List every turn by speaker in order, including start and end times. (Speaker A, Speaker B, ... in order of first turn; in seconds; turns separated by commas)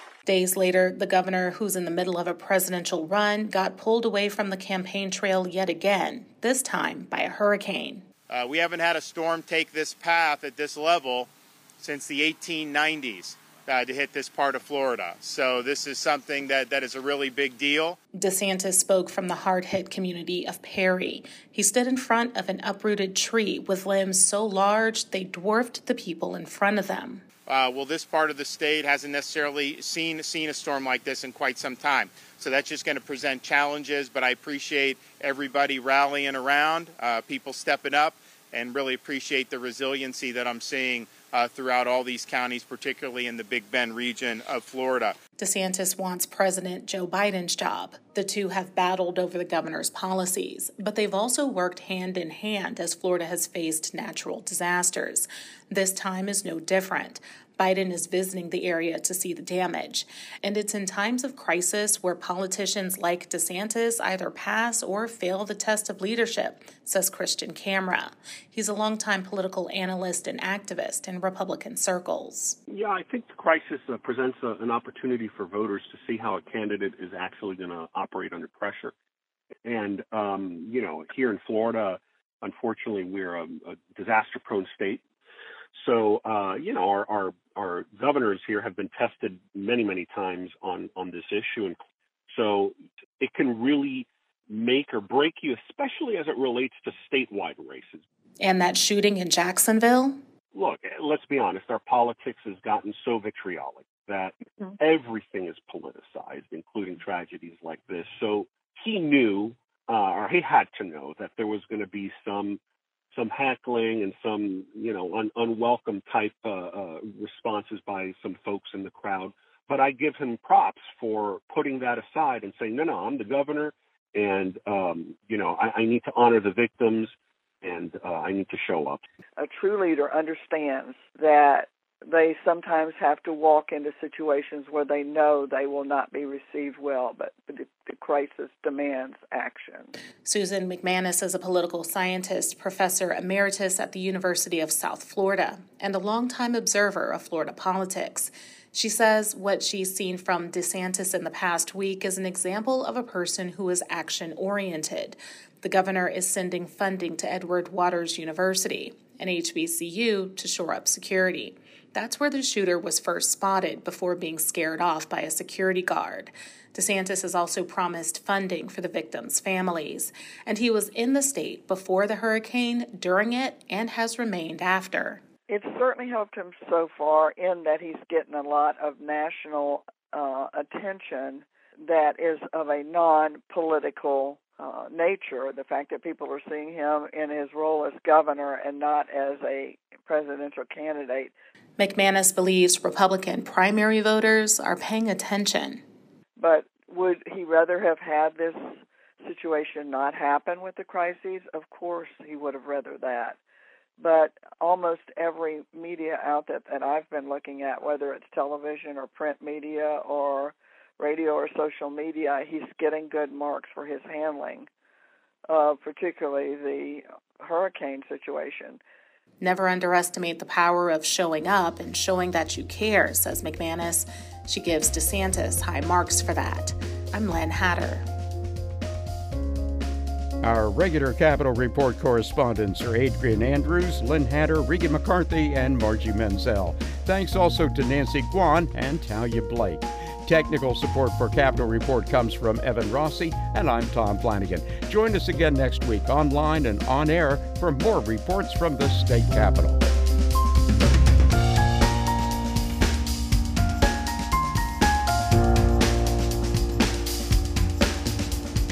Speaker A: 0.3-8.1, Speaker B: 8.3-18.0, Speaker A: 18.1-27.2, Speaker B: 27.5-45.2, Speaker A: 45.4-72.6, Speaker C: 72.7-78.9, Speaker C: 79.6-85.0, Speaker C: 85.8-98.0, Speaker A: 98.4-100.2, Speaker C: 100.5-112.6, Speaker C: 113.1-129.0, Speaker D: 129.4-139.9, Speaker A: 140.2-175.2, Speaker D: 175.5-191.3, Speaker A: 191.8-195.8, Speaker D: 196.4-203.4, Speaker D: 204.0-214.7, Speaker D: 215.5-218.8, Speaker A: 219.4-228.1, Speaker E: 230.4-249.9